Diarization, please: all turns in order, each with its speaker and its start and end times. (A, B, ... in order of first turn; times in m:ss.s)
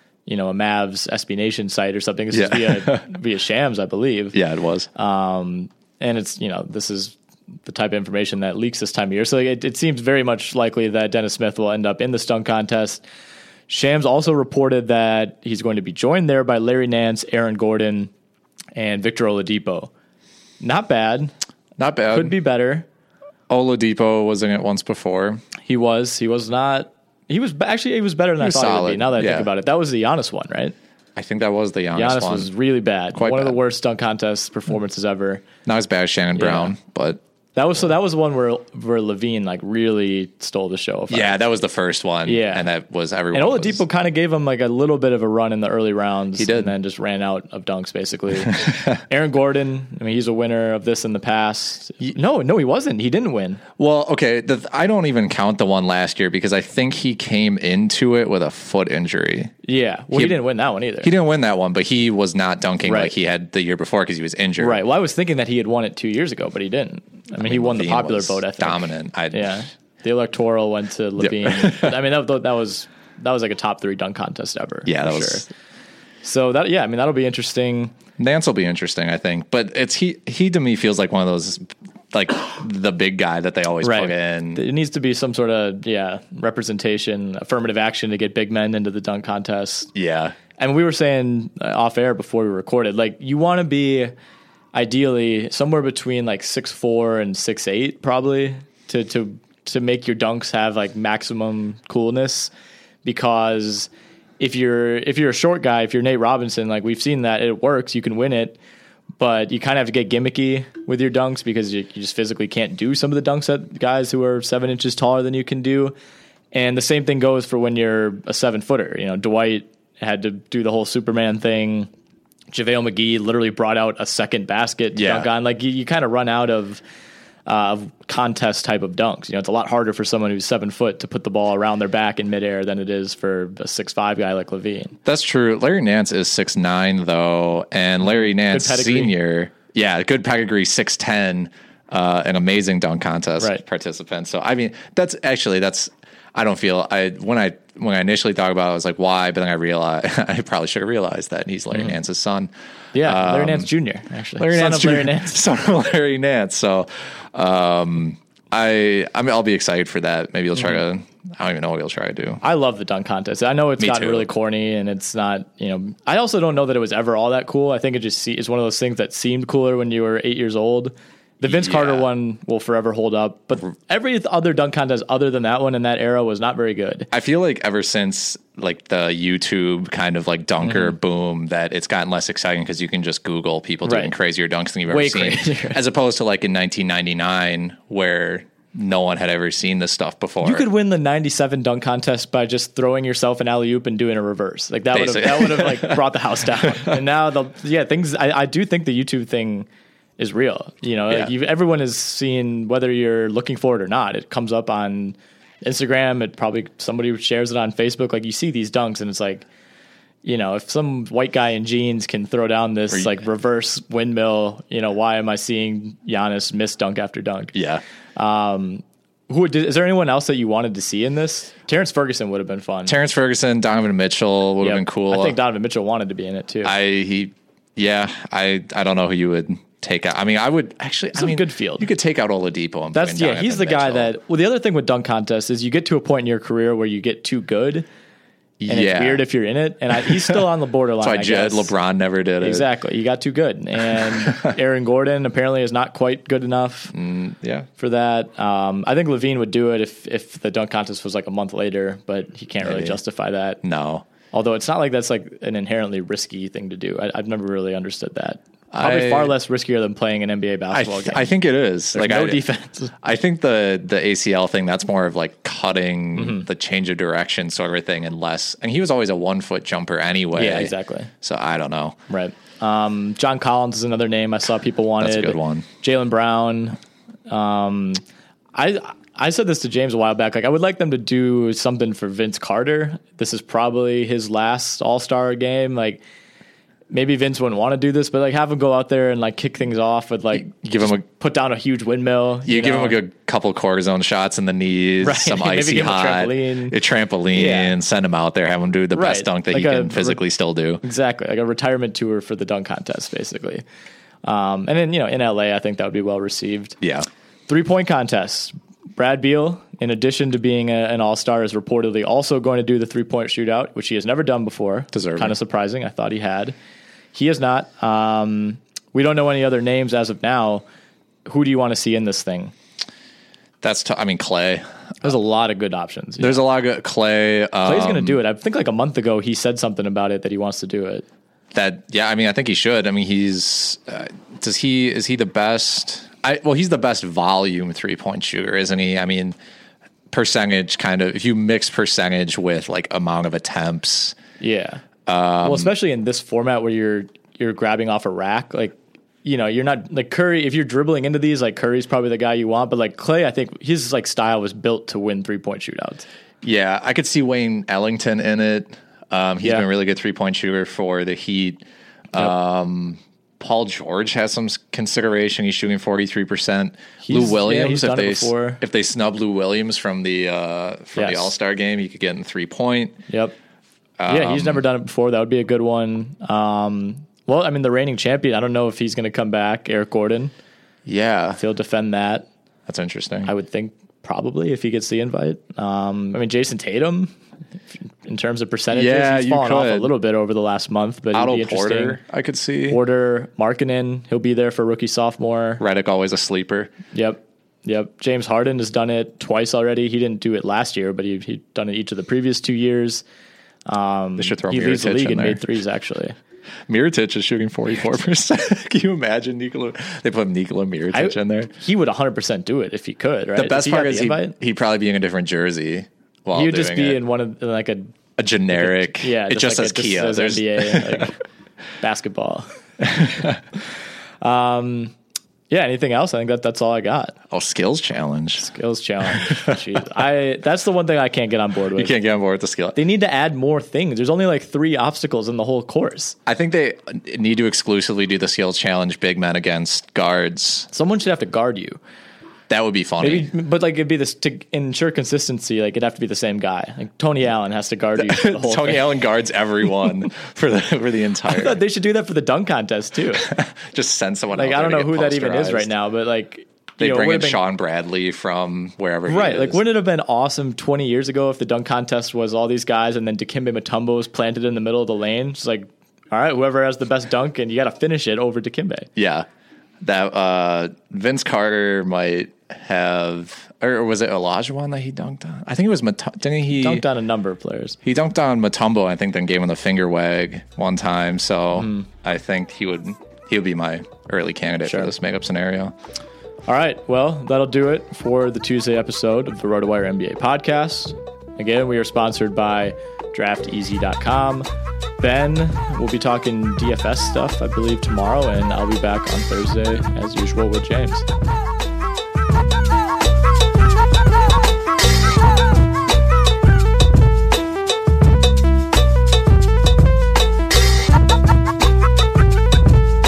0:00.3-0:04.4 A
0:02.3-0:03.1 B
0:04.3-0:04.9 B
0:05.0-0:13.0 A
0:13.7-0:18.1 A
0:18.8-0:19.9 A
0:20.6-0:21.3 A
0:21.8-0:22.3 B
0:22.1-0:22.9 A
0:23.5-0:25.4 B
0:25.6-0:30.8 A
0:28.4-0:29.5 B
0:31.2-0:32.5 B
0:32.0-0:35.4 A
0:33.1-0:33.6 B
0:35.6-0:37.2 B
0:36.4-0:36.7 A
0:37.6-0:41.4 A
0:41.1-0:43.8 B
0:42.3-0:42.7 A
0:43.3-0:53.6 A
0:46.4-0:46.7 B
0:48.5-0:49.0 B
0:53.8-0:59.6 B
0:59.6-1:01.1 A
1:01.0-1:04.8 B
1:02.9-1:03.1 A
1:04.6-1:15.5 A
1:07.4-1:09.6 B
1:11.2-1:12.0 B
1:14.9-1:15.4 B
1:16.2-1:17.9 A
1:18.2-1:24.6 B
1:23.8-1:29.9 A
1:30.0-1:30.4 B
1:30.6-1:34.1 A
1:34.7-1:42.5 A
1:43.0-1:43.9 A
1:44.4-1:48.6 A
1:49.2-1:56.0 A
1:56.5-2:01.9 A
2:02.5-2:06.8 A
2:05.0-2:05.3 B
2:07.5-2:15.0 A
2:15.0-2:33.7 B
2:18.0-2:19.1 A
2:32.9-2:35.4 A
2:34.4-2:42.4 B
2:42.4-2:57.1 A
2:43.8-2:44.3 B
2:51.4-2:52.1 B
2:57.1-3:10.7 B
3:00.6-3:00.9 A
3:03.8-3:04.1 A
3:04.9-3:05.8 A
3:10.4-3:29.4 A
3:14.9-3:16.1 B
3:16.7-3:17.0 B
3:30.2-3:37.6 A
3:37.6-3:37.8 B
3:38.2-3:43.0 A
3:42.9-3:45.4 B
3:44.6-3:46.7 A
3:46.6-3:54.1 B
3:51.2-3:51.9 A
3:52.9-3:57.9 A
3:58.6-3:59.2 B
3:58.7-4:01.7 A
4:01.0-4:02.7 B
4:02.4-4:06.9 A
4:04.2-4:04.5 B
4:06.9-4:07.7 B
4:07.8-4:13.6 A
4:12.6-4:13.0 B
4:13.6-4:14.0 B
4:14.3-4:21.3 A
4:18.7-4:19.3 B
4:20.7-4:22.4 B
4:22.0-4:22.9 A
4:23.0-4:32.0 B
4:26.2-4:26.5 A
4:30.4-4:31.1 A
4:32.1-4:36.8 A
4:35.0-4:35.7 B
4:37.3-4:38.0 A
4:38.6-4:46.0 A
4:46.9-4:53.0 A
4:50.4-4:51.0 B
4:52.5-5:00.8 B
4:55.0-4:56.8 A
4:57.3-4:57.7 A
4:58.9-5:00.2 A
5:00.8-5:03.6 A
5:04.2-5:06.8 A
5:06.8-5:07.1 B
5:07.5-5:16.6 A
5:14.9-5:15.4 B
5:17.1-5:20.6 A
5:21.3-5:22.5 A
5:23.6-5:24.7 B
5:25.0-5:26.4 A
5:26.2-5:28.2 B
5:27.6-5:31.0 A
5:31.5-5:39.4 B
5:40.1-5:44.2 B
5:44.4-5:44.8 A
5:45.1-5:45.7 B
5:45.4-5:56.1 A
5:56.4-6:01.6 B
6:02.1-6:13.0 B
6:07.0-6:08.6 A
6:11.0-6:11.3 A
6:13.1-6:13.4 A
6:14.0-6:14.6 B
6:14.1-6:20.3 A
6:20.9-6:21.4 B
6:21.4-6:22.3 A
6:22.7-6:23.3 B
6:23.2-6:27.1 A
6:28.0-6:32.0 A
6:28.7-6:29.9 B
6:31.1-6:32.8 B
6:32.7-6:35.6 A
6:35.6-6:36.7 B
6:36.9-6:43.0 A
6:43.7-6:46.2 A
6:44.2-6:45.5 B
6:46.7-6:51.5 B
6:50.9-6:54.4 A
6:53.4-6:57.0 B
6:56.3-6:58.0 A
6:58.2-7:01.0 B
6:58.6-7:01.2 A
7:01.8-7:03.2 A
7:02.9-7:03.4 B
7:04.2-7:04.9 A
7:05.5-7:07.2 A
7:07.3-7:08.5 B
7:08.4-7:11.9 A
7:09.2-7:09.6 B
7:11.8-7:12.8 B
7:12.8-7:16.2 A
7:16.3-7:20.7 B
7:20.7-7:21.8 A
7:22.5-7:23.3 B
7:23.0-7:28.8 A
7:28.0-7:31.6 B
7:31.3-7:33.3 A
7:33.2-7:35.7 B
7:34.4-7:37.4 A
7:36.8-7:39.6 B
7:39.1-7:48.9 A
7:49.0-7:49.3 B
7:49.8-7:56.8 B
7:56.5-7:57.8 A
7:57.8-8:05.7 B
8:01.6-8:01.9 A
8:04.6-8:04.9 A
8:06.5-8:14.5 A
8:15.0-8:21.0 A